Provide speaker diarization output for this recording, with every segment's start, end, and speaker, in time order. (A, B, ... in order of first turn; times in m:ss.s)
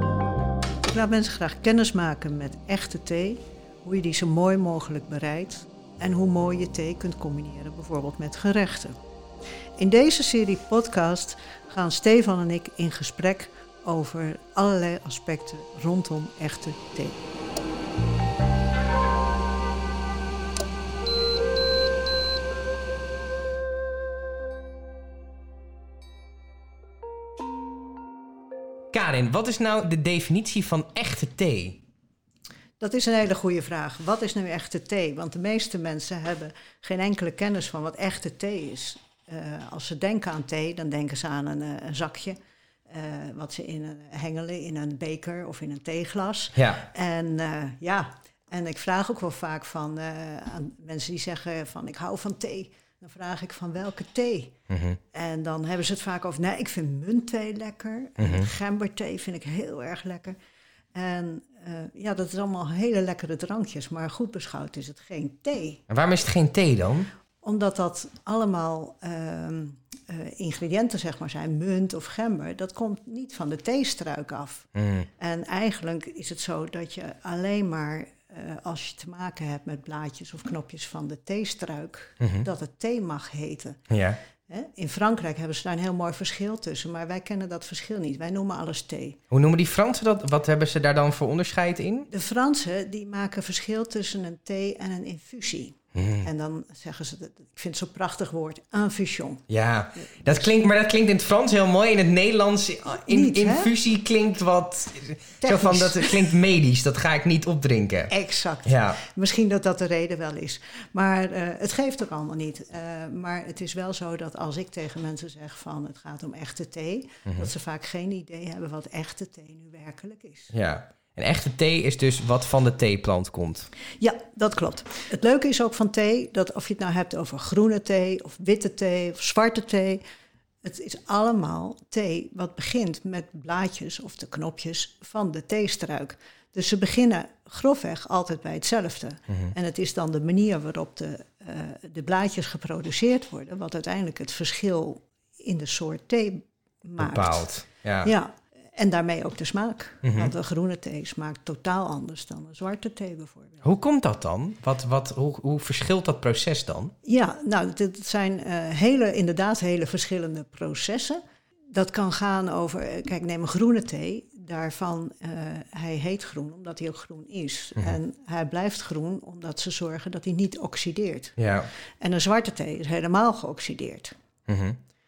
0:00.8-0:09.0 A
0:09.8-0:17.2 A
0:28.9-0:31.8 B
0:32.8-0:42.4 A
0:42.9-0:54.5 A
0:46.6-0:46.8 B
0:54.7-0:55.0 B
0:55.1-1:00.4 A
0:58.2-0:58.5 B
1:01.0-1:05.8 A
1:05.9-1:07.1 B
1:07.4-1:14.7 A
1:14.8-1:15.1 B
1:15.2-1:23.8 A
1:22.2-1:22.5 B
1:23.9-1:24.2 B
1:24.5-1:29.2 A
1:29.3-1:32.1 B
1:32.1-1:39.4 A
1:36.0-1:36.3 B
1:39.5-1:48.1 B
1:43.1-1:43.7 A
1:45.4-1:46.3 A
1:48.1-2:00.5 A
1:48.7-1:49.0 B
1:57.3-1:57.5 B
2:00.5-2:03.7 B
2:04.0-2:10.0 A
2:10.6-2:27.5 A
2:27.0-2:28.1 B
2:28.0-2:33.6 A
2:30.0-2:30.3 B
2:33.6-2:36.9 B
2:37.0-2:51.4 A
2:51.4-2:51.7 B
2:52.0-2:54.1 A
2:54.5-2:54.8 B